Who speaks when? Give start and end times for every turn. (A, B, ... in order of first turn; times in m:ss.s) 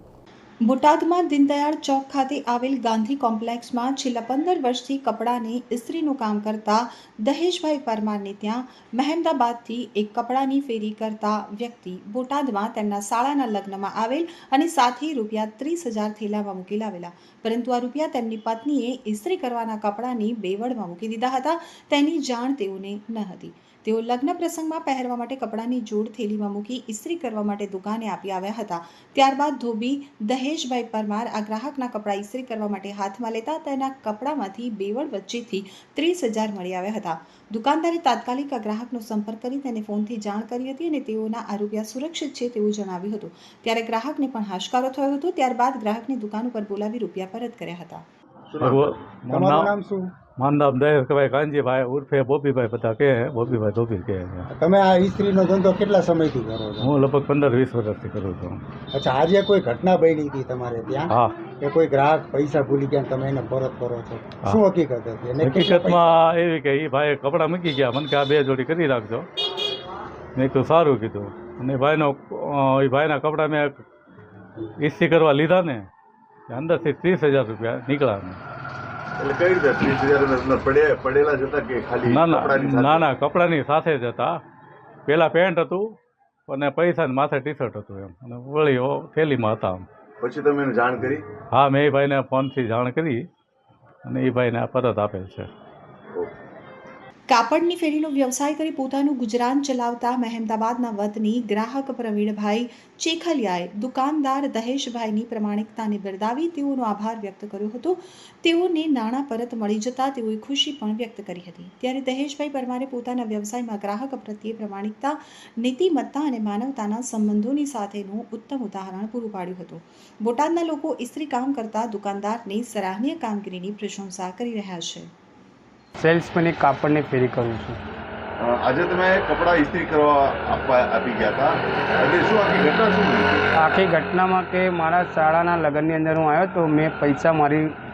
0:00.6-0:48.0 A
0:48.5-0:49.0 B
0:48.6-0:49.7 C
0:49.3-0:50.1 D
0:50.4-0:54.5 C
0:54.5-0:56.9 D
0:56.8-0:58.6 C
0:58.9-1:06.1 D
1:01.1-1:01.4 C
1:05.4-1:09.2 C
1:10.3-1:13.8 C
1:14.8-1:15.8 C
1:16.5-1:18.4 C
1:19.2-1:23.0 B
1:22.0-1:24.3 C
1:25.1-1:25.8 C
1:26.5-1:29.8 C
1:30.2-1:31.2 B
1:31.5-1:33.2 C
1:34.0-1:35.5 C
1:37.3-2:05.1 A
2:06.0-2:07.8 E
2:08.4-2:13.5 B
2:13.6-2:17.7 E